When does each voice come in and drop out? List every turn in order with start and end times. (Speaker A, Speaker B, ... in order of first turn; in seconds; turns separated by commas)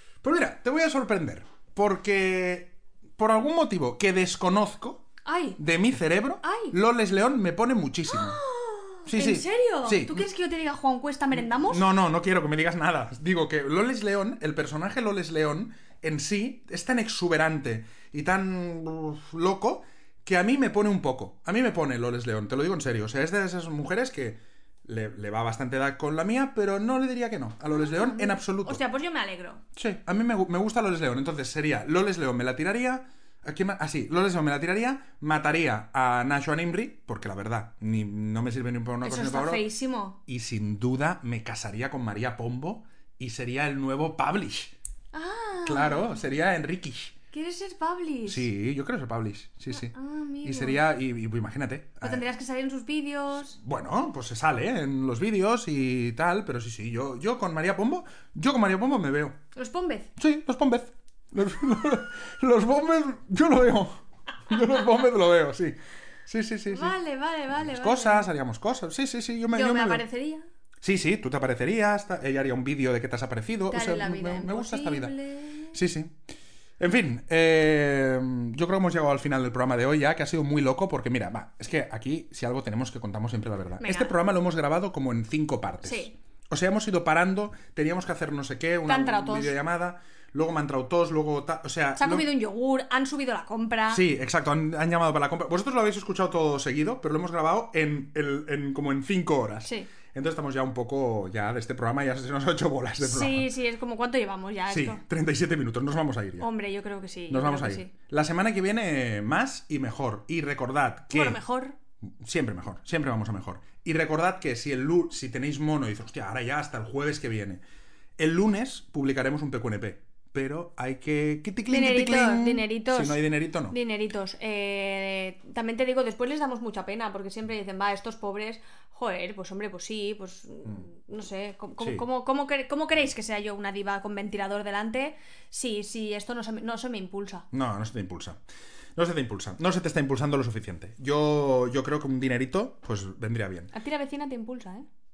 Speaker A: 0.2-5.0, Speaker B: 5.2-5.6, Speaker A: 5.6-8.4, Speaker B: 6.4-6.7, Speaker B: 8.1-11.8, Speaker A: 9.1-10.3, Speaker A: 11.3-28.8, Speaker B: 27.7-29.6, Speaker A: 29.8-39.6, Speaker B: 39.0-40.2, Speaker A: 40.3-44.7, Speaker B: 45.1-46.1, Speaker A: 45.6-47.1, Speaker B: 47.3-48.5, Speaker A: 48.3-52.2, Speaker B: 49.7-50.8, Speaker B: 52.0-53.6, Speaker A: 53.6-59.4, Speaker B: 59.5-60.1, Speaker A: 60.2-66.9, Speaker B: 66.7-68.3, Speaker A: 67.5-70.0, Speaker B: 69.5-70.5, Speaker A: 70.8-75.1, Speaker B: 73.7-75.8, Speaker A: 75.7-76.1, Speaker A: 76.8-92.3, Speaker B: 83.8-84.1, Speaker B: 85.8-86.2, Speaker B: 88.8-89.5, Speaker B: 92.0-94.0, Speaker A: 93.9-103.5, Speaker B: 103.0-105.0, Speaker A: 104.7-106.5, Speaker B: 106.4-107.9, Speaker A: 107.3-111.4, Speaker B: 111.1-111.8, Speaker A: 112.1-117.6, Speaker A: 118.2-123.8, Speaker B: 121.7-137.4, Speaker A: 131.8-132.0, Speaker A: 137.5-138.4, Speaker A: 138.9-143.7, Speaker B: 143.7-144.8